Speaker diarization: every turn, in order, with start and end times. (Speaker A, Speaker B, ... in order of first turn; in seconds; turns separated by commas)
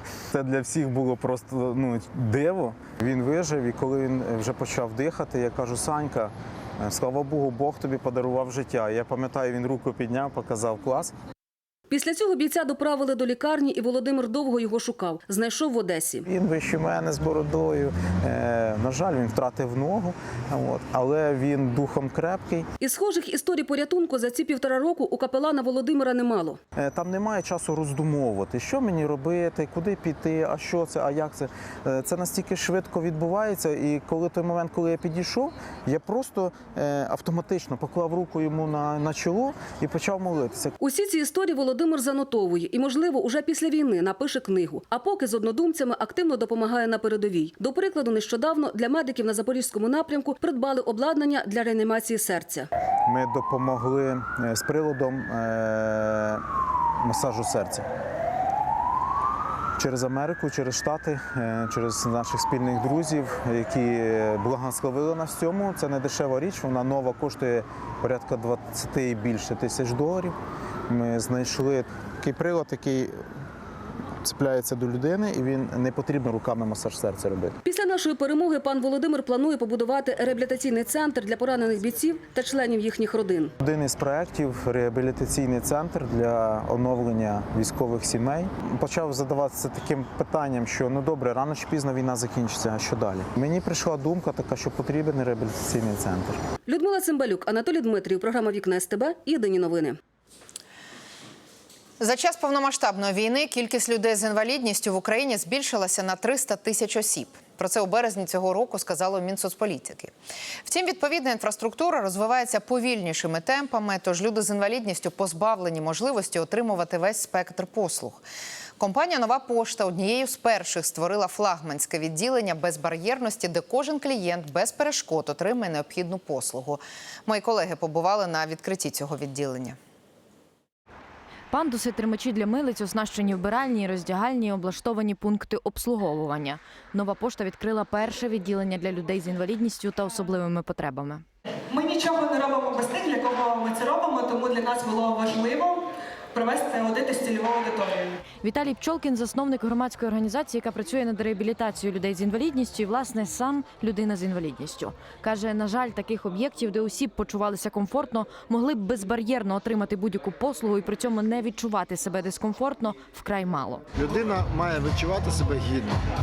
Speaker A: 0.3-11.1, Speaker B: 11.9-16.2, Speaker A: 16.3-22.7, Speaker B: 22.8-26.6, Speaker A: 26.8-40.8, Speaker B: 40.8-52.7, Speaker A: 53.1-56.4, Speaker A: 57.0-57.9, Speaker A: 59.8-70.3, Speaker A: 70.9-73.2, Speaker A: 74.2-77.6, Speaker B: 77.7-83.5, Speaker A: 83.6-96.4, Speaker B: 96.7-100.0, Speaker C: 102.0-110.1, Speaker C: 110.7-118.2, Speaker C: 118.8-129.8, Speaker D: 131.5-141.2, Speaker E: 141.7-145.8, Speaker E: 146.3-148.1, Speaker D: 148.4-163.8, Speaker F: 164.0-166.1